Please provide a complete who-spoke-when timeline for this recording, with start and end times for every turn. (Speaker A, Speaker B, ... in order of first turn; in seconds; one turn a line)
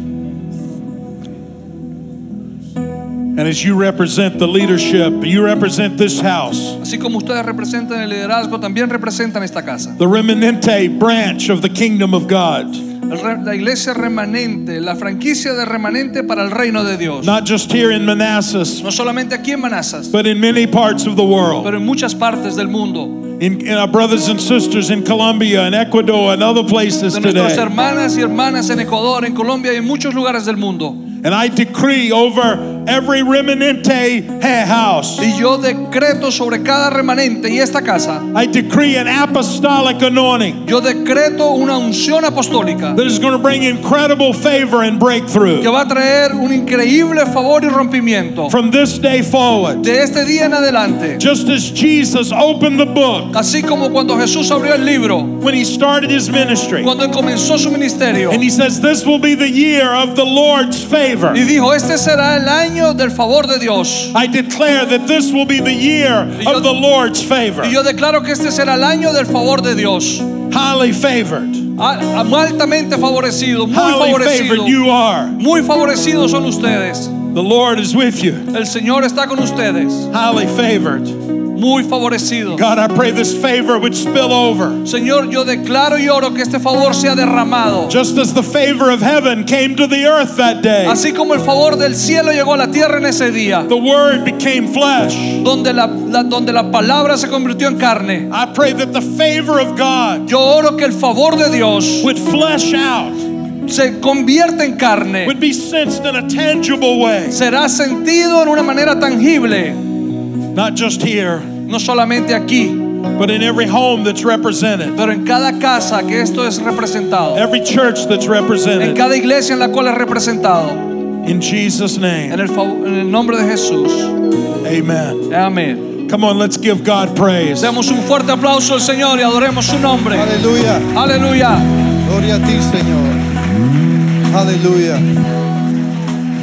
Speaker A: 3.3-6.8
Speaker B: 6.8-10.0
Speaker A: 10.0-12.8
Speaker B: 13.1-17.3
Speaker A: 17.2-18.8
Speaker B: 18.8-20.1
Speaker A: 20.1-21.7
Speaker B: 21.6-23.3
Speaker A: 23.4-27.7
Speaker B: 27.1-31.1
Speaker A: 31.2-35.3
Speaker B: 35.2-38.2
Speaker A: 38.3-40.6
Speaker B: 40.6-43.0
Speaker A: 42.9-45.7
Speaker B: 45.6-48.5
Speaker A: 48.5-49.9
Speaker B: 49.8-51.2
Speaker A: 51.2-53.3
Speaker B: 53.3-55.4
Speaker A: 55.4-56.9
Speaker B: 56.8-58.4
Speaker A: 58.3-61.4
Speaker B: 61.3-64.1
Speaker A: 64.1-67.8
Speaker B: 66.4-66.7
Speaker B: 67.6-70.3
Speaker A: 70.5-71.7
Speaker B: 71.8-74.8
Speaker A: 73.7-75.4
Speaker B: 75.3-77.2
Speaker A: 77.3-78.5
Speaker B: 78.5-80.1
Speaker A: 80.1-81.2
Speaker B: 81.5-82.6
Speaker A: 82.5-84.8
Speaker B: 84.8-88.0
Speaker A: 87.9-91.0
Speaker B: 90.8-93.7
Speaker A: 93.7-95.4
Speaker B: 95.4-98.3
Speaker A: 98.3-100.3
Speaker B: 100.2-102.1
Speaker A: 102.0-103.2
Speaker B: 103.6-105.3
Speaker A: 105.2-107.4
Speaker B: 107.3-109.8
Speaker A: 110.5-111.5
Speaker B: 111.7-112.9
Speaker A: 113.0-115.0
Speaker B: 115.0-117.4
Speaker A: 117.3-119.0
Speaker B: 118.8-120.9
Speaker A: 121.2-122.4
Speaker B: 122.3-124.2
Speaker A: 124.6-125.3
Speaker B: 125.3-126.0
Speaker A: 126.0-127.8
Speaker B: 127.6-130.3
Speaker C: 130.1-130.9
Speaker B: 130.9-131.7
Speaker C: 132.0-133.2
Speaker C: 134.3-135.0